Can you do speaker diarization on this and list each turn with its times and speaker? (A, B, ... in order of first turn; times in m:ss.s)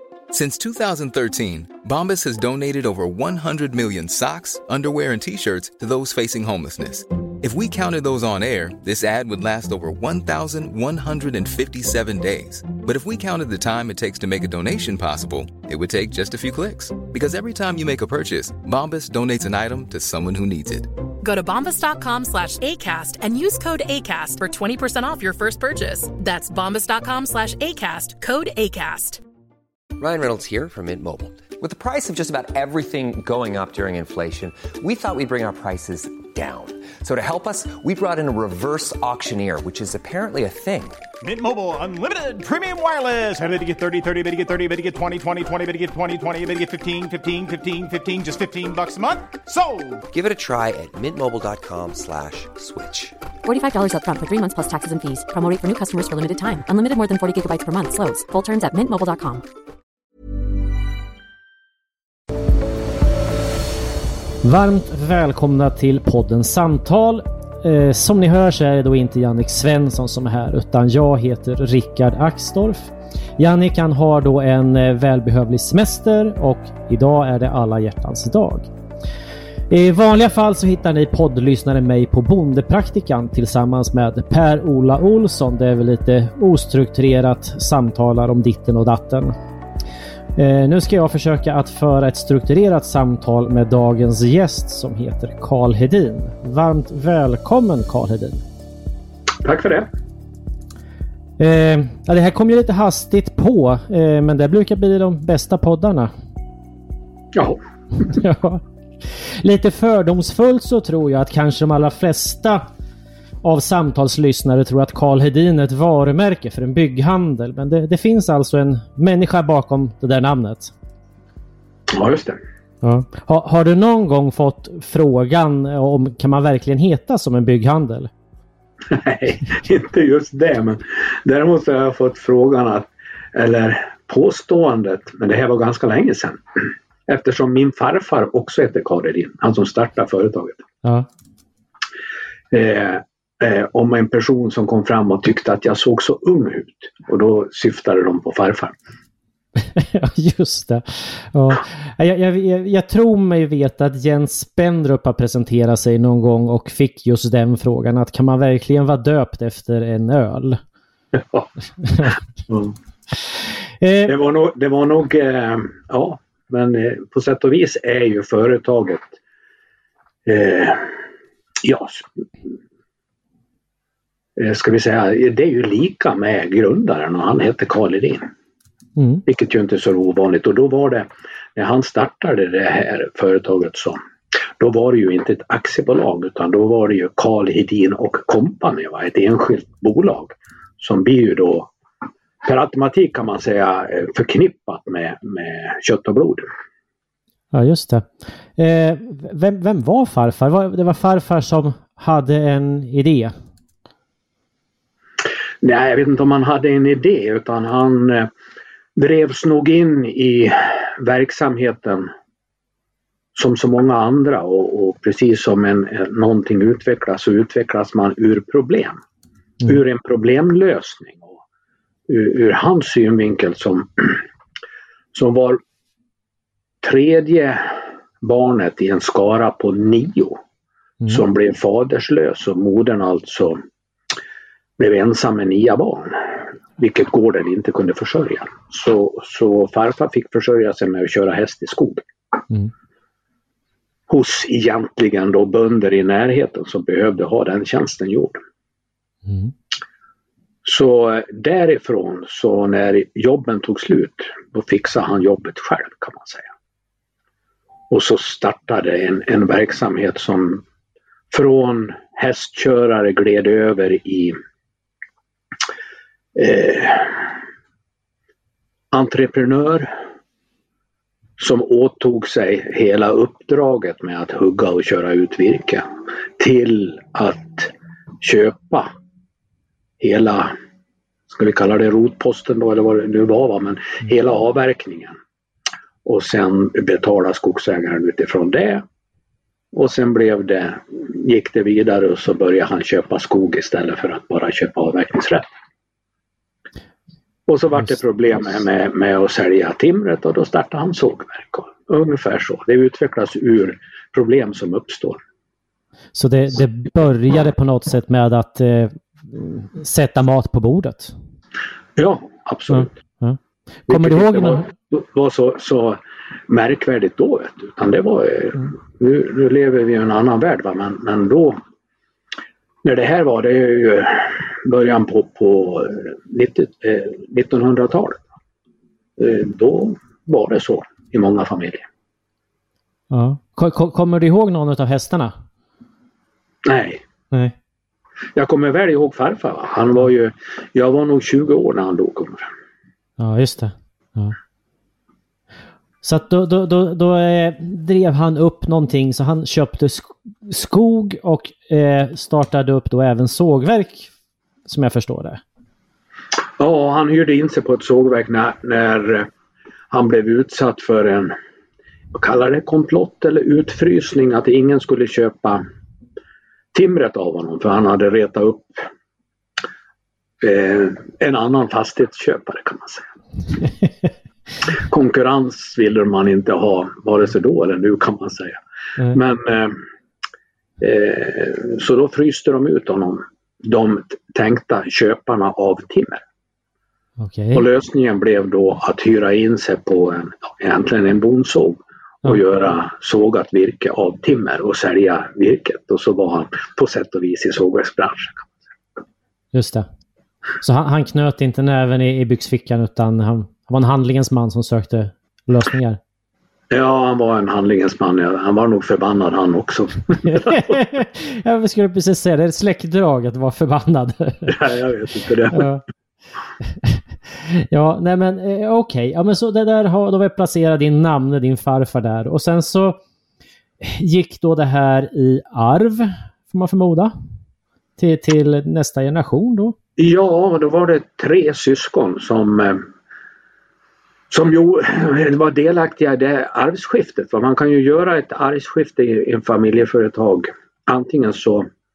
0:00.3-0:20.9 A
0:21.2-0:29.2 B
0:30.0-0:41.0 C
0:41.2-0:50.0 D
0:50.1-0:53.1 C
0:53.4-0:59.4 E
1:04.4-1:18.7 F
1:19.7-1:29.4 F
1:30.4-1:38.4 F
1:39.4-1:39.9 G
1:41.4-1:46.1 F
1:48.0-1:52.6 F
1:53.4-2:00.7 F
2:01.9-2:02.4 G
2:02.8-2:08.1 F
2:08.9-2:20.6 G
2:22.5-2:28.8 G
2:29.7-2:40.6 F
2:41.1-2:41.5 G
2:42.0-2:42.8 G
2:43.8-2:44.1 F
2:44.0-2:49.1 G
2:50.2-2:51.0 G
2:51.6-2:52.5 G
2:54.4-2:58.3 G
2:59.0-2:59.2 F
2:59.2-3:04.0 G
3:04.6-3:11.7 G
3:12.4-3:16.5 G
3:17.5-3:23.3 F
3:25.6-3:28.3 G
3:29.0-3:32.1 G
3:33.3-3:39.0 G
3:39.6-3:41.4 G
3:42.1-3:44.2 G
3:45.1-3:45.6 G
3:46.8-3:50.4 G
3:51.1-3:53.6 G
3:54.8-4:02.0 G
4:04.1-4:08.4 G
4:09.2-4:09.5 F
4:10.6-4:16.5 G
4:17.9-4:20.6 G
4:21.3-4:24.4 G
4:26.3-4:27.3 G
4:28.9-4:29.9 G
4:31.4-4:38.9 G
4:40.0-4:40.5 G
4:41.3-4:45.2 G
4:46.0-4:48.8 G
4:49.7-4:55.5 G
4:57.5-5:05.2 G
5:06.1-5:11.1 F
5:12.0-5:12.9 G
5:12.7-5:14.6 F
5:13.9-5:21.6 G
5:22.8-5:28.2 G
5:29.2-5:31.9 G
5:33.1-5:35.3 F
5:36.6-5:37.0 G
5:38.3-5:42.5 G
5:43.2-5:44.4 F
5:46.0-5:54.1 F
5:54.7-5:55.4 F
5:56.6-5:59.3 G
5:59.9-6:01.3 G
6:02.1-6:05.6 G
6:06.7-6:08.9 G
6:10.4-6:13.1 G
6:14.7-6:19.8 G
6:20.8-6:26.2 G
6:27.2-6:27.6 F
6:27.5-6:38.5 G
6:39.5-6:39.9 F
6:40.6-6:46.0 F
6:46.7-6:50.8 G
6:50.3-6:54.6 F
6:54.5-6:55.7 G
6:55.5-6:55.8 F
6:56.8-7:03.0 F
7:03.8-7:07.1 F
7:08.0-7:09.7 F
7:10.0-7:12.9 G
7:14.3-7:21.7 G